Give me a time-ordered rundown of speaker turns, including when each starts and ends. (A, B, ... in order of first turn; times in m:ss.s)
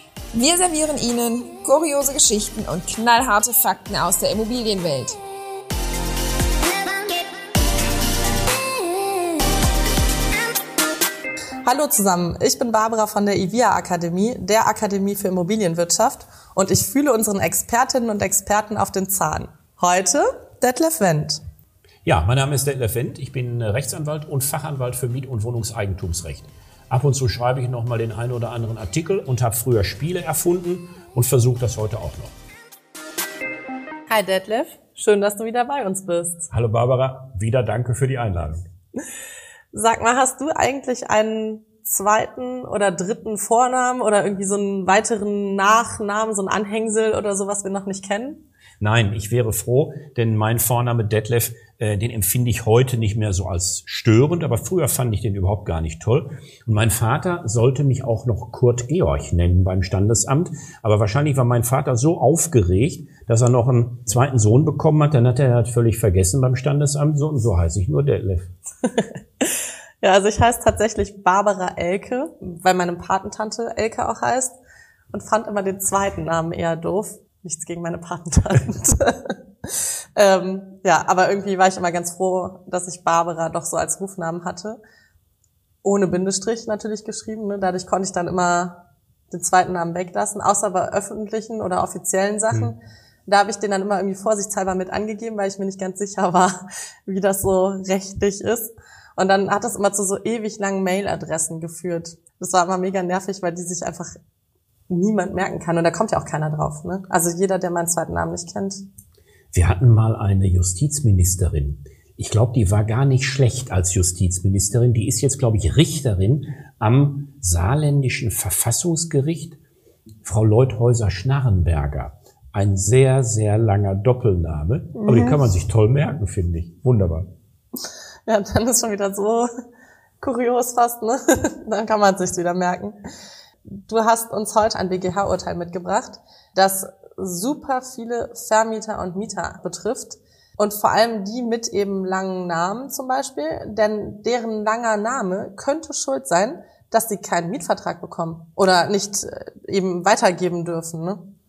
0:00.3-0:05.2 A
0:11.6-0:21.4 B
0:22.0-0:32.4 C
0:34.1-0:36.5 B
0:36.5-0:38.6 C
0:39.7-0:48.4 B
0:48.8-1:08.5 C
1:08.8-1:09.5 B
1:10.0-1:14.6 B
1:15.1-1:24.8 B
1:25.8-1:44.1 B
1:44.9-1:48.8 B
1:49.5-1:59.6 C
2:00.2-2:07.3 C
2:05.0-2:05.4 B
2:08.3-2:09.5 B
2:10.2-2:13.0 B
2:13.7-2:31.2 B